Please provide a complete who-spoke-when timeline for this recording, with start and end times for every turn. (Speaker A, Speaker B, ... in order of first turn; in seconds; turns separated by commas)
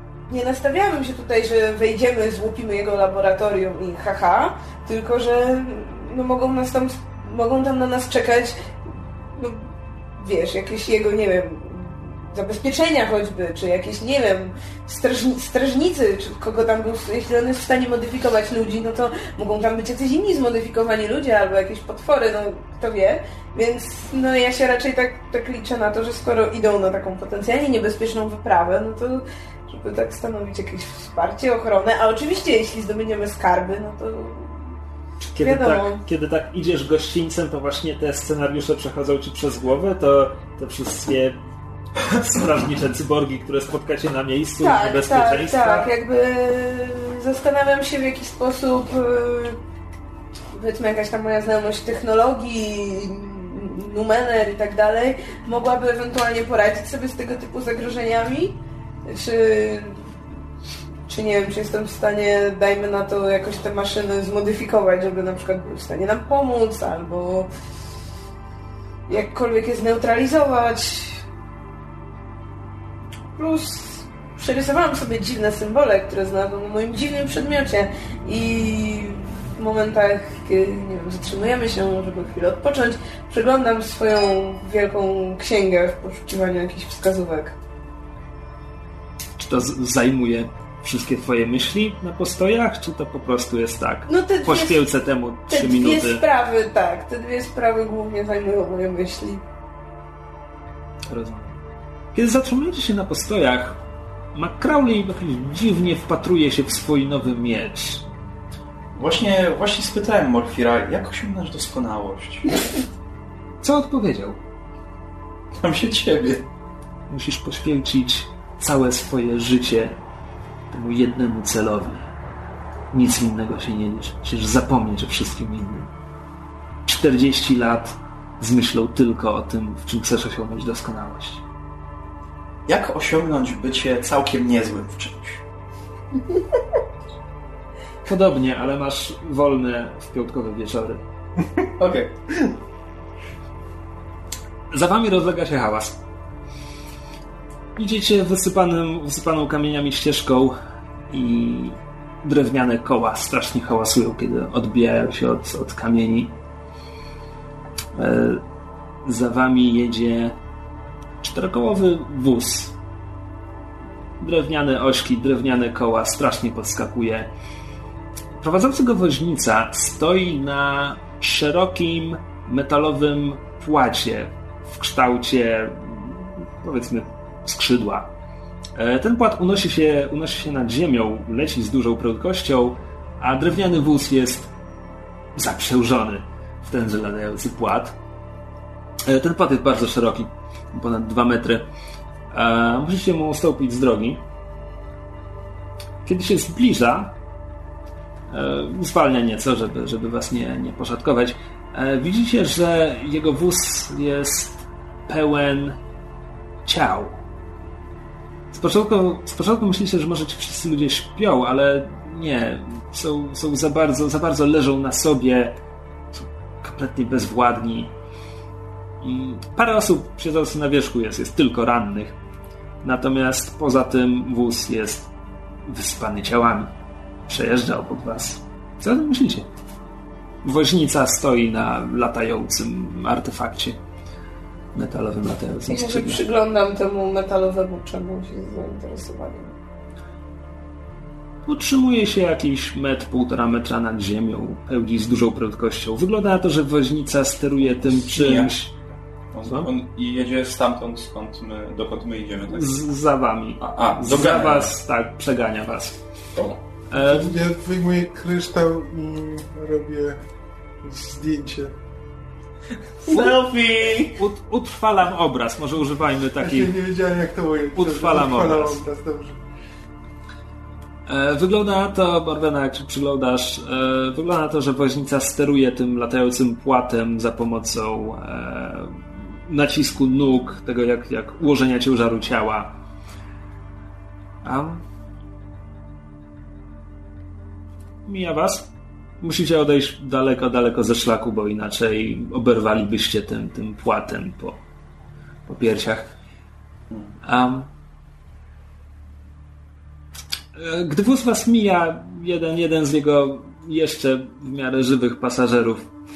Speaker A: 0.3-34.8, Speaker B: 35.2-41.4, Speaker A: 35.4-36.0, Speaker B: 42.0-45.9, Speaker A: 44.6-49.6, Speaker A: 50.5-60.1, Speaker A: 61.0-67.5, Speaker A: 69.1-71.2, Speaker A: 73.4-87.6, Speaker B: 89.4-96.2, Speaker A: 94.1-94.8, Speaker A: 95.5-99.4, Speaker B: 101.0-101.6, Speaker B: 102.1-103.8, Speaker B: 104.3-108.0, Speaker C: 108.9-112.6, Speaker B: 113.6-114.4, Speaker C: 115.6-116.5, Speaker B: 117.1-120.0, Speaker B: 120.7-122.1, Speaker B: 122.9-125.9, Speaker B: 126.8-131.4, Speaker C: 132.7-135.4, Speaker B: 138.0-141.0, Speaker C: 141.8-142.1, Speaker B: 144.7-146.0, Speaker B: 147.8-150.5, Speaker B: 151.1-156.3, Speaker B: 157.9-158.4, Speaker B: 159.0-160.4, Speaker B: 161.2-162.7, Speaker B: 164.2-167.3, Speaker B: 168.3-178.1, Speaker B: 178.8-184.5, Speaker B: 185.3-188.0, Speaker B: 189.0-191.7, Speaker B: 192.3-194.2, Speaker B: 196.0-197.2, Speaker B: 198.3-205.8, Speaker B: 206.6-207.2, Speaker B: 208.5-215.6, Speaker B: 216.1-217.9, Speaker B: 219.0-222.2, Speaker B: 222.8-225.1, Speaker B: 225.6-226.7, Speaker B: 227.3-229.5, Speaker B: 230.4-233.8, Speaker B: 234.7-236.2, Speaker A: 235.7-239.6, Speaker B: 241.4-248.7, Speaker C: 247.8-248.6, Speaker C: 249.3-252.8, Speaker B: 249.4-249.7, Speaker B: 252.5-256.0, Speaker C: 253.6-254.7, Speaker C: 256.3-256.6, Speaker B: 256.9-257.4, Speaker D: 256.9-260.2, Speaker D: 260.8-261.7, Speaker C: 263.0-264.2, Speaker B: 264.1-266.7, Speaker D: 266.4-269.4, Speaker B: 267.7-268.8, Speaker B: 271.1-282.8, Speaker B: 284.4-284.8, Speaker B: 288.1-294.6, Speaker B: 295.5-296.1, Speaker B: 297.2-297.7, Speaker B: 300.5-305.9